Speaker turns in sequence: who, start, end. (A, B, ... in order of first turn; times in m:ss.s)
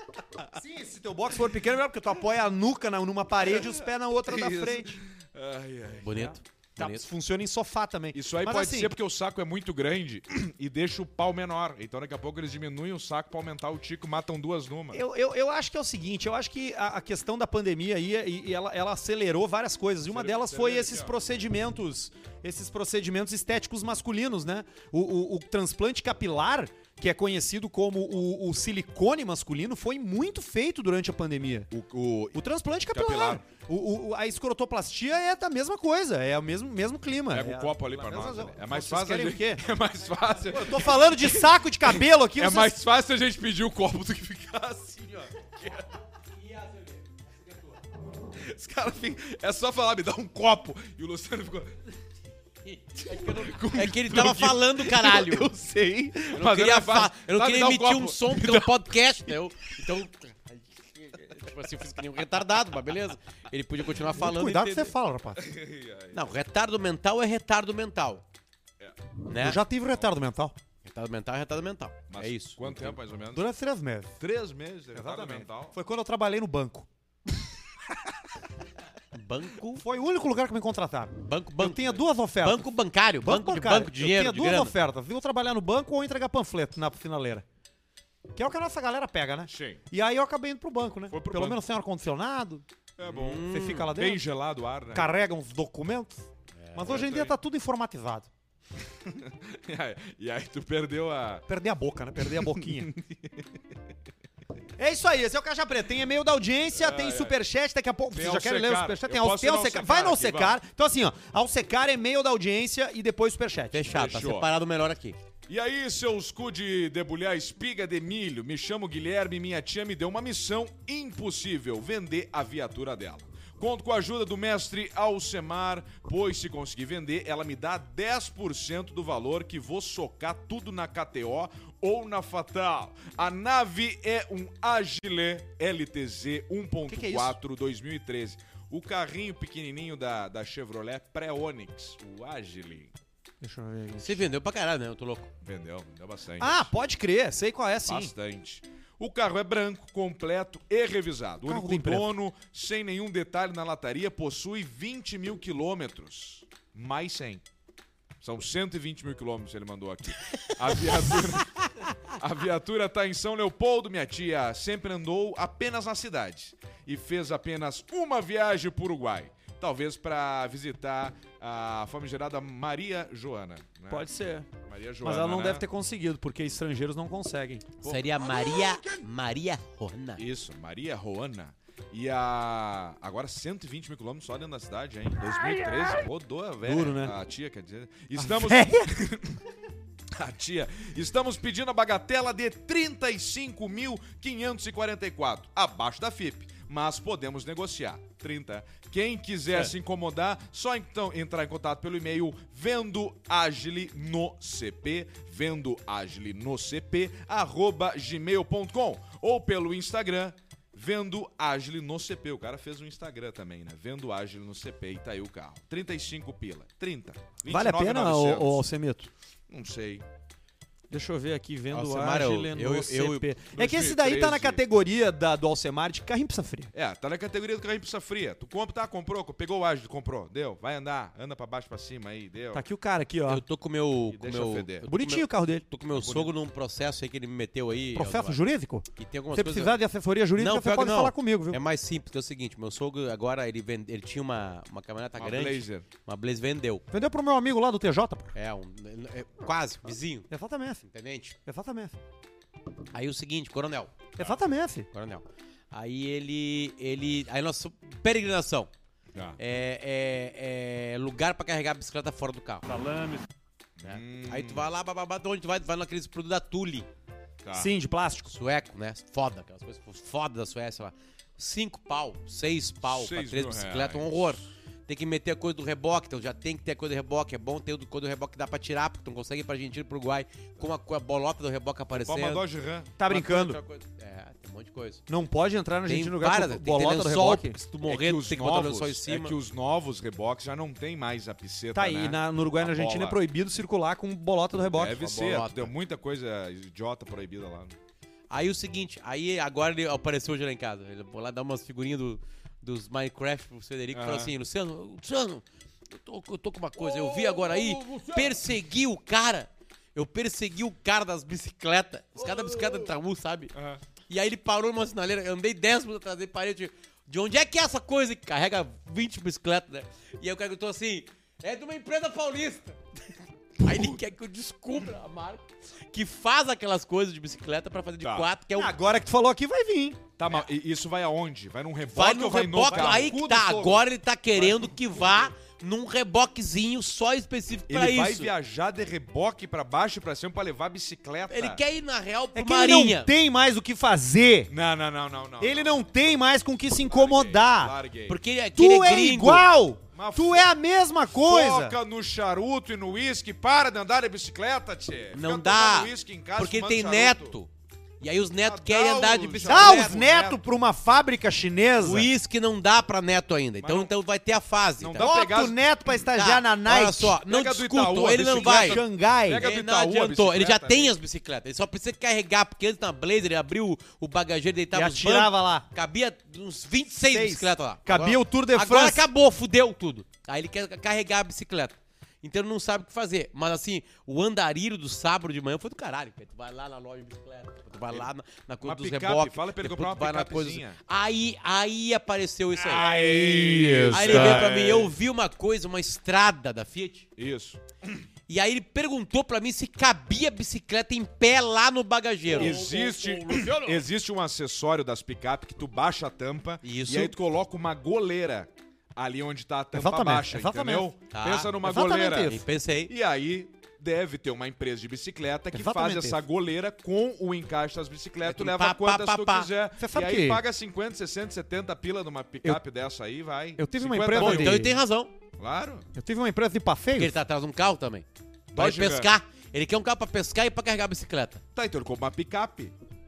0:00.5-0:05.0 A
0:03.5-0:06.3 B
0:06.0-0:07.1 C
0:06.1-0:08.9 A
0:08.1-0:15.0 B
0:14.9-0:31.7 A
0:20.1-0:21.1 B
0:31.7-0:32.4 B
0:32.3-0:39.6 A
0:32.9-0:33.4 B
0:37.3-0:45.9 B
0:40.5-0:42.8 A
0:46.3-0:47.8 C
0:48.3-0:51.8 B
0:52.7-0:55.5 C
0:53.0-0:59.3 B
0:56.2-1:04.9 C
1:04.0-1:05.4 A
1:05.4-1:06.2 B
1:06.1-1:08.2 C
1:09.2-1:09.6 C
1:09.3-1:10.6 A
1:10.8-1:13.0 C
1:12.1-1:13.5 B
1:13.3-1:14.2 A
1:14.2-1:15.7 B
1:14.9-1:16.9 A
1:19.1-1:19.8 C
1:19.7-1:22.7 A
1:21.2-1:24.7 C
1:23.2-1:27.4 A
1:28.3-1:32.6 A
1:29.5-1:29.8 B
1:31.1-1:31.6 B
1:33.0-1:35.1 B
1:33.0-1:33.9 C
1:33.4-1:34.2 A
1:34.9-1:38.3 A
1:36.6-1:37.0 C
1:36.8-1:37.3 B
1:39.0-1:41.4 B
1:41.5-1:42.9 A
1:42.3-1:43.6 B
1:44.8-1:53.9 A
1:46.7-1:47.3 B
1:48.1-1:50.6 B
1:53.7-1:55.2 C
1:53.9-1:54.5 B
1:55.5-2:22.9 B
2:16.9-2:17.4 A
2:23.4-2:24.2 A
2:24.0-2:25.3 C
2:25.4-2:26.7 B
2:26.4-2:28.1 A
2:27.8-2:37.4 B
2:31.4-2:32.1 A
2:38.2-2:54.1 B
2:53.9-2:54.5 A
2:54.6-2:55.6 B
2:55.0-2:57.7 A
2:57.8-2:58.4 B
2:57.8-3:00.2 C
3:00.2-3:09.4 B
3:06.6-3:07.1 A
3:08.2-3:08.9 A
3:10.1-3:38.6 B
3:37.5-3:39.1 A
3:39.5-3:40.0 B
3:40.9-3:46.7 A
3:41.7-3:43.3 C
3:43.5-3:44.6 B
3:46.7-3:52.6 B
3:52.5-3:53.4 A
3:53.3-3:58.4 C
3:54.1-3:54.9 B
3:54.8-3:55.6 A
3:55.9-3:56.3 B
3:57.9-4:01.6 A
3:59.0-3:59.8 C
4:00.4-4:06.8 C
4:05.2-4:05.8 B
4:06.9-4:08.3 A
4:08.3-4:10.3 C
4:10.3-4:10.8 A
4:10.8-4:11.4 C
4:11.4-4:12.0 A
4:12.9-4:13.9 C
4:14.2-4:14.9 A
4:14.9-4:18.7 C
4:19.4-4:22.7 C
4:22.7-4:23.2 A
4:23.8-4:24.7 B
4:23.8-4:26.9 C
4:27.4-4:27.7 B
4:27.5-4:28.3 A
4:28.3-4:42.4 C
4:32.8-4:34.4 B
4:41.9-4:43.0 B
4:43.0-4:43.6 A
4:43.1-4:45.0 C
4:45.1-4:47.6 A
4:45.9-4:49.4 C
4:47.9-4:53.2 B
4:51.7-4:55.0 A
4:54.7-4:57.7 B
4:55.0-4:55.7 C
4:58.3-5:13.5 C
5:03.9-5:04.3 B
5:06.8-5:08.4 B
5:12.2-5:12.9 B
5:13.5-5:13.8 B
5:14.1-5:28.7 C
5:23.6-5:24.0 B
5:28.0-5:28.3 B
5:28.5-5:30.0 A
5:30.2-5:33.5 B
5:31.9-5:38.3 C
5:32.6-5:33.8 A
5:34.3-5:35.3 B
5:37.7-5:41.6 B
5:41.3-5:43.1 C
5:42.3-5:44.5 A
5:44.5-5:45.9 B
5:45.4-5:47.8 A
5:46.9-5:48.2 B
5:48.1-5:49.5 C
5:48.5-5:51.8 A
5:49.9-5:50.5 B
5:51.1-5:57.4 B
5:55.1-5:57.5 C
5:58.0-6:00.0 C
5:58.4-6:00.4 B
5:59.4-6:02.1 A
6:01.8-6:05.1 C
6:03.6-6:03.9 B
6:04.8-6:05.6 B
6:05.0-6:07.2 A
6:06.1-6:08.8 C
6:07.2-6:10.9 B
6:08.1-6:09.4 A
6:09.4-6:32.9 C
6:14.7-6:15.7 A
6:17.1-6:19.1 A
6:28.6-6:30.8 B
6:32.6-6:34.9 B
6:32.7-6:34.5 A
6:33.9-6:37.1 C
6:37.2-6:38.0 B
6:38.3-6:43.8 C
6:42.3-6:42.8 A
6:42.3-7:04.7 B
6:46.6-6:47.1 C
6:49.7-6:50.9 A
6:51.1-6:52.9 C
6:51.6-6:52.4 A
6:55.5-6:56.2 A
6:58.2-6:59.5 C
6:59.8-7:00.4 A
7:03.6-7:04.8 A
7:04.1-7:05.1 C
7:05.4-7:05.8 B
7:05.9-7:07.1 A
7:07.0-7:11.4 C
7:08.5-7:09.1 B
7:11.5-7:12.7 B